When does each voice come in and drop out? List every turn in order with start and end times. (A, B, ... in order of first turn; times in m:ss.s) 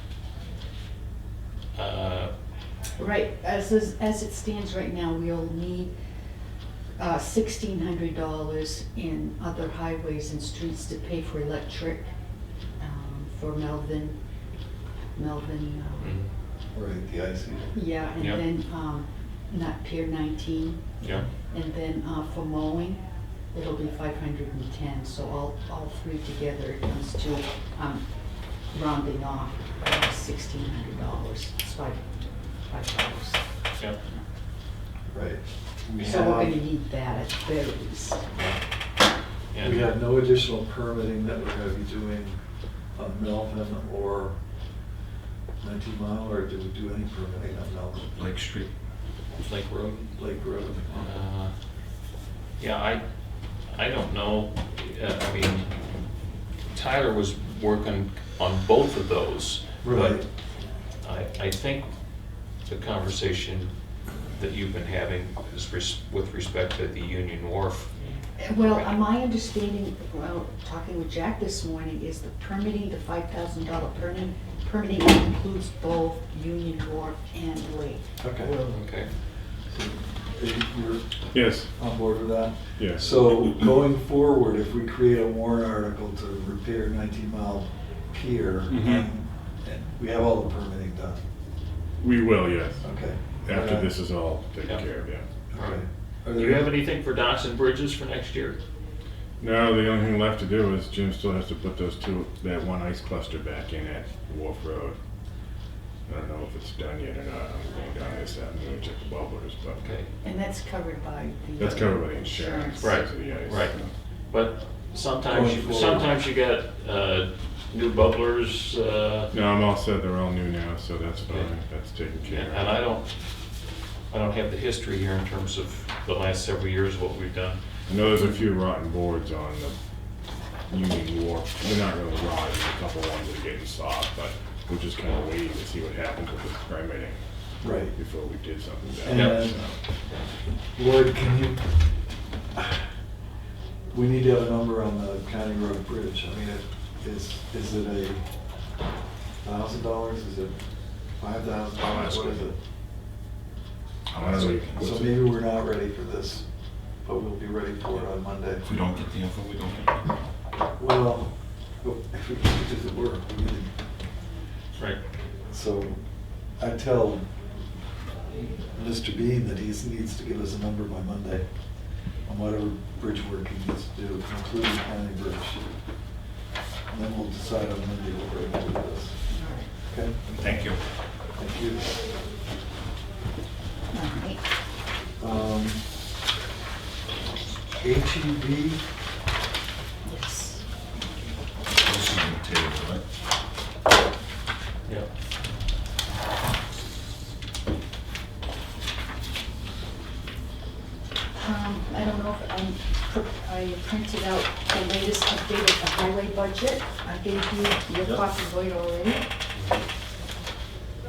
0:01.7-0:02.3 A
0:03.0-0:05.9 B
0:07.0-0:12.1 B
0:12.8-0:14.2 B
0:15.1-0:16.2 B
0:16.0-0:16.3 A
0:16.7-0:17.8 C
0:17.7-0:23.0 B
0:23.5-0:28.0 B
0:28.7-0:33.4 B
0:35.1-0:36.6 C
0:36.0-0:38.2 B
0:39.5-0:39.9 A
0:39.6-0:42.4 C
0:43.0-0:44.4 C
0:45.6-0:48.2 C
0:48.2-0:48.7 D
0:49.4-0:50.1 A
0:50.1-0:51.1 C
0:51.0-0:51.5 A
0:52.6-0:53.0 A
0:53.7-0:55.7 A
0:56.7-1:00.2 A
0:59.8-1:00.2 C
1:01.0-1:01.9 A
1:02.7-1:03.7 A
1:04.3-1:07.9 A
1:08.4-1:18.8 B
1:08.4-1:09.0 A
1:18.2-1:18.6 C
1:18.6-1:19.1 A
1:19.7-1:31.2 C
1:21.3-1:21.7 E
1:22.8-1:23.1 E
1:28.7-1:29.1 E
1:32.0-1:32.8 E
1:32.8-1:33.9 C
1:33.4-1:35.3 E
1:35.5-1:36.7 C
1:35.5-1:35.8 A
1:36.3-1:38.6 A
1:39.4-1:45.0 E
1:46.1-1:50.0 E
1:49.8-1:50.1 A
1:50.2-1:53.4 B
1:51.6-1:53.9 E
1:52.8-1:53.8 A
1:54.3-1:59.3 A
1:55.2-1:56.1 C
1:59.3-2:02.8 E
2:02.2-2:03.1 A
2:04.1-2:07.6 A
2:07.9-2:09.8 E
2:10.7-2:19.8 E
2:17.6-2:17.9 C
2:19.0-2:19.6 C
2:19.1-2:19.5 A
2:20.8-2:21.8 C
2:22.5-2:22.8 C
2:23.9-2:28.3 C
2:29.4-2:30.6 C
2:31.2-2:32.5 C
2:31.9-2:32.4 D
2:34.1-2:35.0 D
2:34.2-2:35.1 E
2:34.4-2:36.4 C
2:37.0-2:38.7 C
2:38.6-2:40.2 D
2:40.8-2:43.7 C
2:45.5-2:46.0 C
2:46.6-2:47.2 C
2:48.3-2:51.4 C
2:52.2-2:55.8 C
2:56.9-2:59.2 C
2:59.3-2:59.7 B
2:59.8-3:00.2 C
3:00.2-3:00.8 D
3:01.4-3:02.0 C
3:03.9-3:04.4 B
3:05.2-3:05.8 C
3:07.8-3:08.8 C
3:10.0-3:11.3 B
3:11.8-3:13.0 D
3:21.4-3:29.2 B